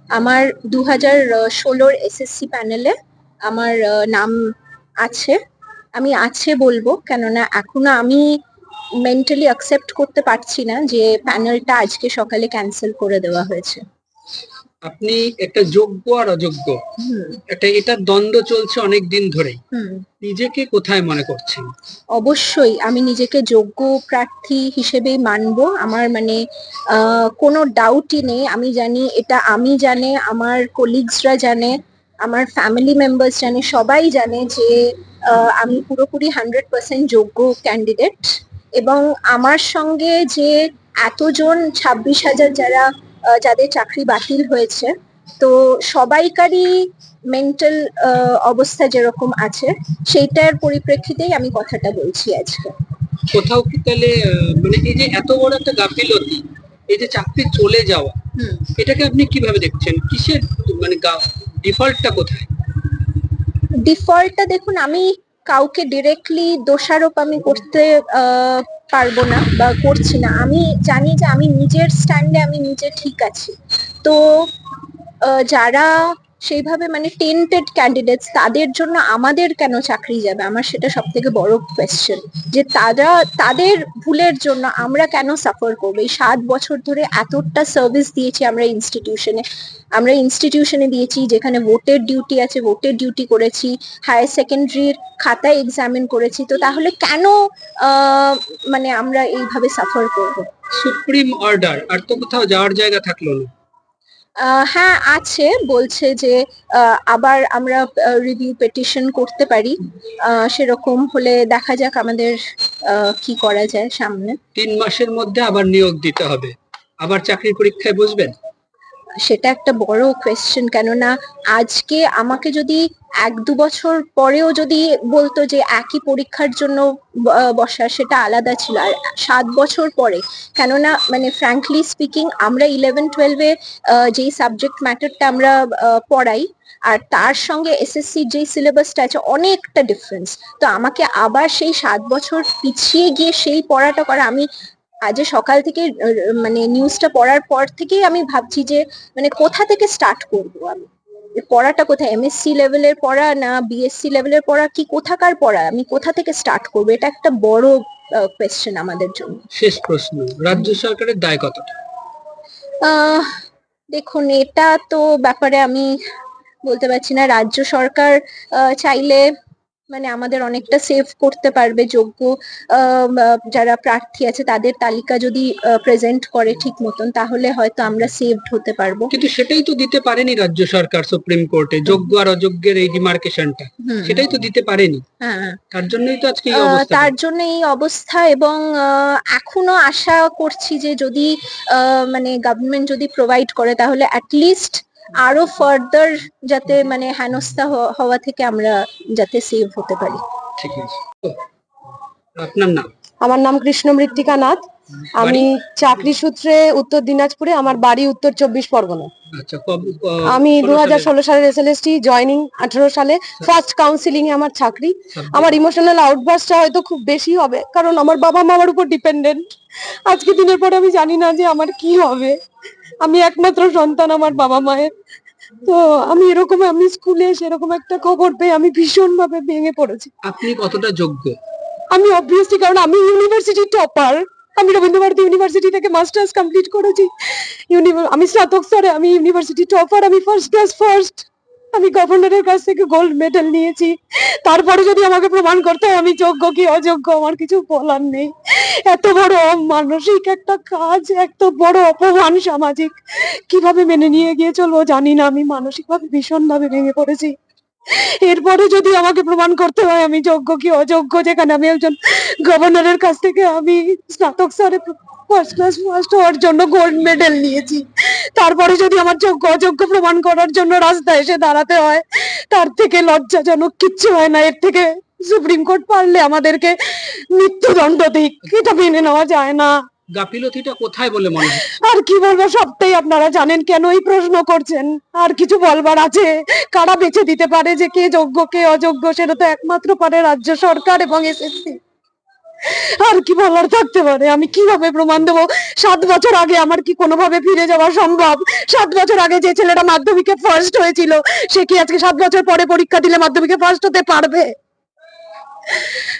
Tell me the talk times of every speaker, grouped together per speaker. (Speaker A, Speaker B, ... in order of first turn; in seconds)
Speaker A: 0.2-2.9, 3.5-4.4, 5.0-5.4, 6.0-8.2, 9.1-13.8, 17.0-17.4, 19.7-20.0, 22.2-26.4, 26.9-34.8, 35.3-52.7, 58.4-58.7, 63.9-74.5, 75.3-75.9, 76.5-89.4, 90.0-100.5, 104.4-112.4, 112.9-114.3, 119.2-144.5, 145.1-150.9, 151.4-159.4, 162.8-163.3, 163.9-165.9, 166.7-169.2, 169.9-179.1, 183.8-184.3, 185.2-185.6, 186.5-200.2
Speaker B: 14.9-16.8, 17.5-19.6, 20.2-21.7, 53.3-58.2, 58.8-62.5, 100.8-103.5, 114.6-118.3, 159.6-161.7, 179.1-185.0, 185.7-187.1, 200.6-201.4, 202.4-202.9, 205.2-205.5, 209.3-211.1, 215.1-215.6, 230.2-231.4, 280.2-281.7
Speaker C: 203.2-204.7, 205.2-209.1, 210.2-219.5, 220.1-222.4, 223.0-224.9, 225.6-230.1, 231.9-257.4, 257.9-279.7, 281.6-291.8, 292.6-304.6